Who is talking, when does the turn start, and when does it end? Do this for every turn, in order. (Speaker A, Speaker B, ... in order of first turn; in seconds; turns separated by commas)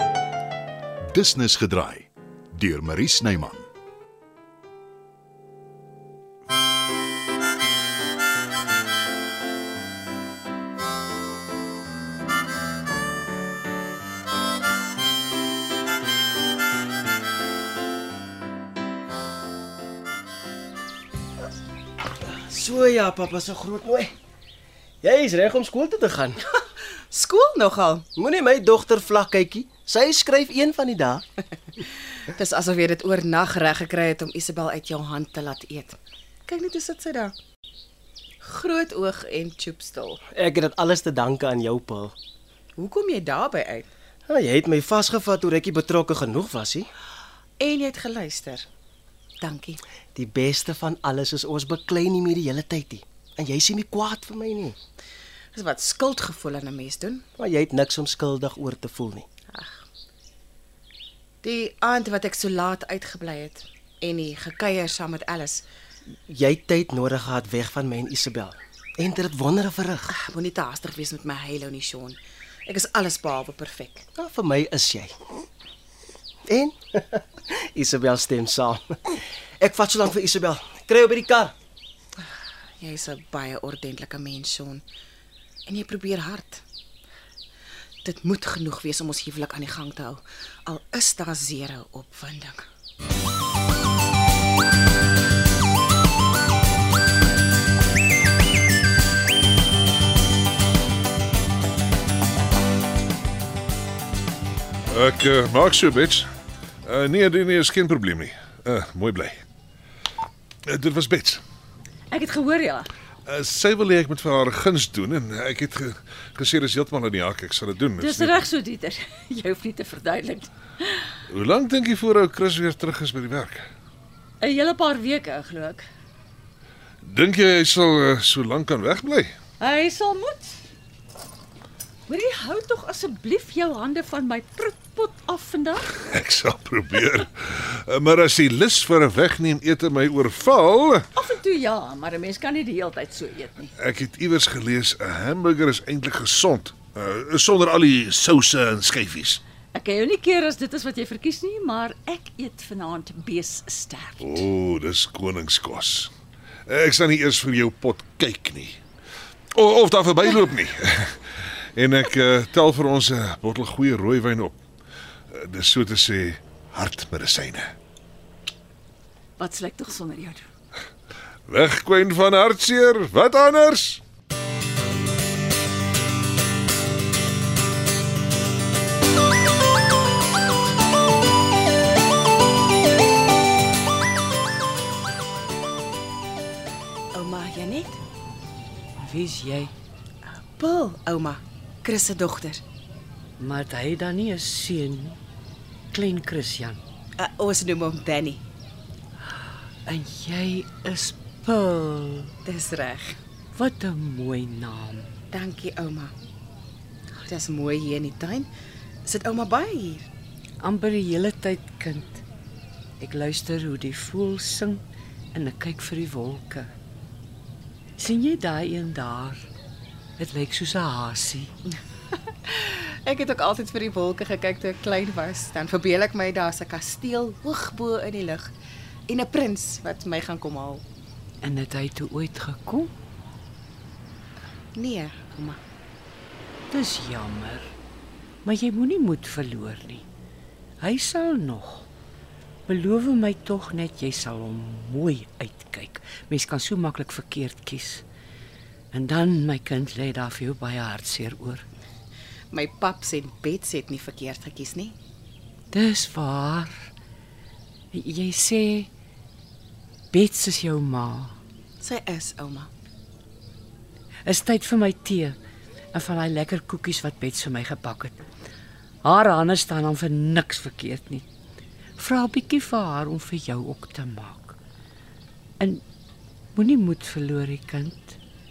Speaker A: 1.1-3.7, Speaker B: 22.2-24.1, Speaker B: 25.0-26.4, Speaker C: 26.6-28.1, Speaker B: 28.1-31.2, Speaker C: 32.3-37.4, Speaker C: 38.4-40.2, Speaker B: 40.3-42.1, Speaker C: 42.8-43.9, Speaker B: 44.3-46.9, Speaker C: 47.6-48.7, Speaker C: 49.4-49.8, Speaker B: 50.1-54.8, Speaker C: 55.5-57.2, Speaker B: 57.4-59.3, Speaker C: 59.5-59.8, Speaker C: 61.4-65.6, Speaker B: 66.3-70.1, Speaker C: 70.1-74.1, Speaker B: 74.2-75.2, Speaker B: 76.5-81.5, Speaker C: 82.8-84.8, Speaker C: 85.7-86.6, Speaker C: 88.0-92.6, Speaker D: 104.9-106.3, Speaker D: 106.8-109.4, Speaker D: 110.7-111.4, Speaker E: 112.1-112.9, Speaker D: 113.2-118.4, Speaker E: 118.0-121.1, Speaker D: 121.3-123.7, Speaker E: 124.4-125.8, Speaker D: 127.0-129.3, Speaker E: 129.6-130.6, Speaker E: 132.1-135.9, Speaker D: 135.9-141.1, Speaker E: 141.2-143.7, Speaker D: 143.8-149.4, Speaker E: 149.7-154.4, Speaker D: 154.2-156.1, Speaker D: 156.7-158.8, Speaker D: 159.5-161.2, Speaker D: 161.8-164.6, Speaker D: 165.3-167.7, Speaker E: 169.4-170.4, Speaker D: 171.5-174.0, Speaker C: 187.1-188.0, Speaker F: 189.0-189.7, Speaker C: 190.2-192.6, Speaker F: 193.4-195.2, Speaker F: 195.9-196.8, Speaker C: 197.2-198.4, Speaker F: 199.8-202.3, Speaker C: 202.4-203.2, Speaker F: 203.5-205.1, Speaker C: 205.3-206.1, Speaker C: 207.2-208.5, Speaker C: 209.0-210.1, Speaker F: 210.6-212.2, Speaker F: 213.0-214.8, Speaker F: 215.3-216.7, Speaker F: 218.0-219.5, Speaker F: 220.2-221.5, Speaker C: 222.4-228.5, Speaker C: 229.1-230.8, Speaker F: 231.4-232.9, Speaker C: 234.7-235.6, Speaker F: 236.7-237.7, Speaker F: 238.4-240.0, Speaker F: 240.8-241.9, Speaker F: 242.7-248.0, Speaker F: 248.9-251.6, Speaker C: 252.5-254.9, Speaker F: 255.7-256.9, Speaker F: 257.9-258.9, Speaker F: 260.1-261.4, Speaker C: 261.8-262.7, Speaker F: 264.2-265.4, Speaker F: 265.9-268.2, Speaker F: 269.0-271.2, Speaker F: 272.0-274.6, Speaker F: 276.5-278.2